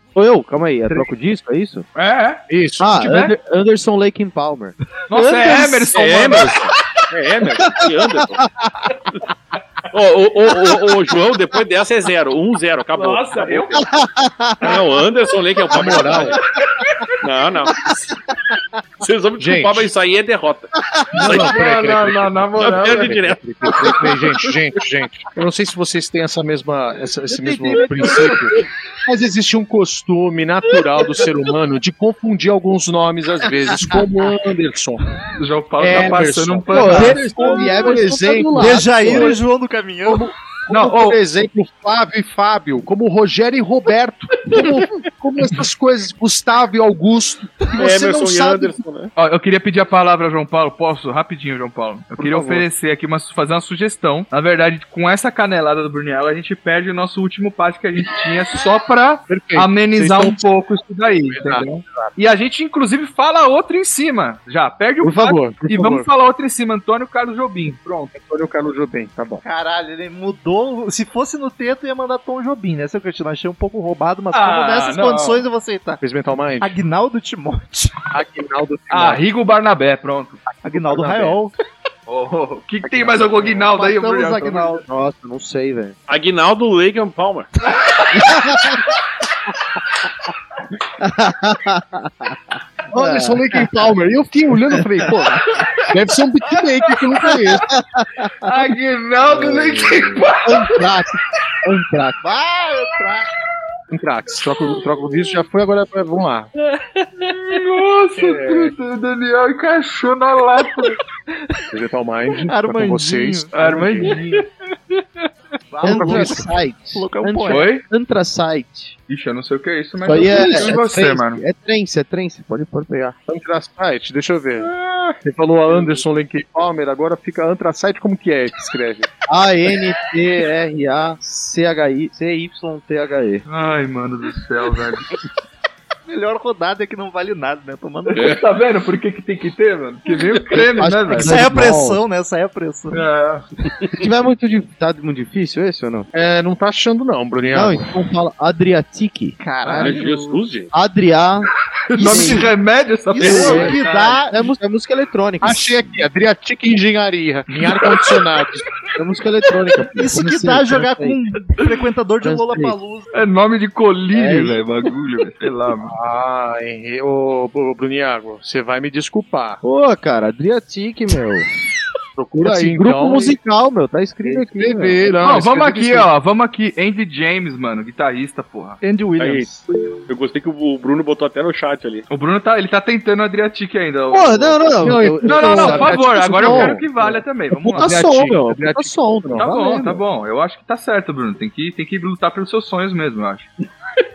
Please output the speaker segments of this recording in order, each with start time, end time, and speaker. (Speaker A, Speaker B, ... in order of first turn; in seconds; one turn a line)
Speaker A: 0.1-1.9
Speaker B: 1.9-2.4
Speaker C: 2.5-3.0
Speaker A: 2.8-5.8
Speaker B: 3.0-3.3
Speaker B: 5.1-6.7
Speaker D: 5.9-8.4
Speaker A: 8.4-8.7
Speaker D: 9.9-13.8
Speaker B: 12.9-13.9
Speaker A: 13.9-14.8
Speaker D: 14.6-16.4
Speaker C: 15.7-16.4
Speaker B: 16.7-17.1
Speaker D: 17.2-17.9
Speaker D: 19.0-21.6
Speaker C: 19.4-19.9
Speaker A: 20.9-21.4
Speaker C: 21.1-35.1
Speaker B: 21.2-23.2
Speaker D: 22.6-24.2
Speaker A: 27.3-28.6
Speaker A: 33.7-34.0
Speaker B: 35.4-37.9
Speaker C: 35.8-39.4
Speaker A: 36.7-39.3
Speaker E: 36.9-37.5
Speaker E: 38.5-40.3
Speaker C: 40.0-48.8
Speaker B: 40.7-41.2
Speaker D: 47.7-49.1
Speaker B: 49.1-68.1
Speaker C: 52.1-52.6
Speaker C: 59.3-60.4
Speaker C: 61.2-62.1
Speaker C: 65.0-66.1
Speaker C: 68.1-69.4
Speaker E: 69.4-76.0
Speaker B: 74.3-75.4
Speaker C: 76.0-76.8
Speaker E: 76.6-78.0
Speaker C: 78.1-79.2
Speaker B: 78.9-80.4
Speaker C: 80.5-81.4
Speaker E: 80.6-81.5
Speaker B: 82.1-84.8
Speaker C: 82.9-83.5
Speaker E: 83.7-84.8
Speaker A: 84.7-86.0
Speaker D: 86.1-87.5
Speaker A: 88.1-88.8
Speaker A: 91.0-92.4
Speaker C: 92.9-97.7
Speaker A: 92.9-93.7
Speaker A: 94.7-95.3
Speaker A: 97.7-98.5
Speaker B: 98.4-100.8
Speaker A: 99.3-102.2
Speaker E: 102.2-103.3
Speaker C: 103.9-106.5
Speaker B: 106.9-111.0
Speaker C: 108.2-108.7
Speaker C: 111.7-114.2
Speaker E: 112.5-114.5
Speaker B: 113.5-114.5
Speaker E: 115.7-117.7
Speaker A: 115.8-119.0
Speaker C: 115.8-116.5
Speaker B: 117.5-117.8
Speaker B: 119.1-121.4
Speaker A: 120.0-123.2
Speaker C: 123.3-129.1
Speaker A: 129.3-133.4
Speaker B: 133.4-135.1
Speaker E: 136.1-138.4
Speaker B: 138.1-141.6
Speaker A: 140.7-142.0
Speaker E: 141.2-143.0
Speaker B: 142.9-143.4
Speaker A: 143.9-146.1
Speaker C: 146.1-147.9
Speaker A: 147.5-149.9
Speaker E: 149.4-150.4
Speaker D: 149.7-150.7
Speaker A: 150.7-152.5
Speaker B: 151.9-154.2
Speaker E: 152.0-152.4
Speaker E: 153.1-154.5
Speaker A: 153.2-155.9
Speaker C: 155.4-158.7
Speaker A: 158.9-161.2
Speaker E: 160.0-163.2
Speaker A: 162.2-162.8
Speaker B: 163.1-165.9
Speaker A: 164.1-164.6
Speaker C: 165.8-169.6
Speaker A: 169.6-171.5
Speaker C: 172.2-173.4
Speaker A: 172.4-175.4
Speaker C: 174.2-176.1
Speaker B: 175.2-178.8
Speaker E: 178.8-180.1
Speaker D: 179.2-179.6
Speaker D: 180.1-182.1
Speaker B: 182.1-188.0
Speaker A: 184.1-190.0
Speaker C: 184.8-187.1
Speaker C: 187.7-189.5
Speaker B: 189.4-193.5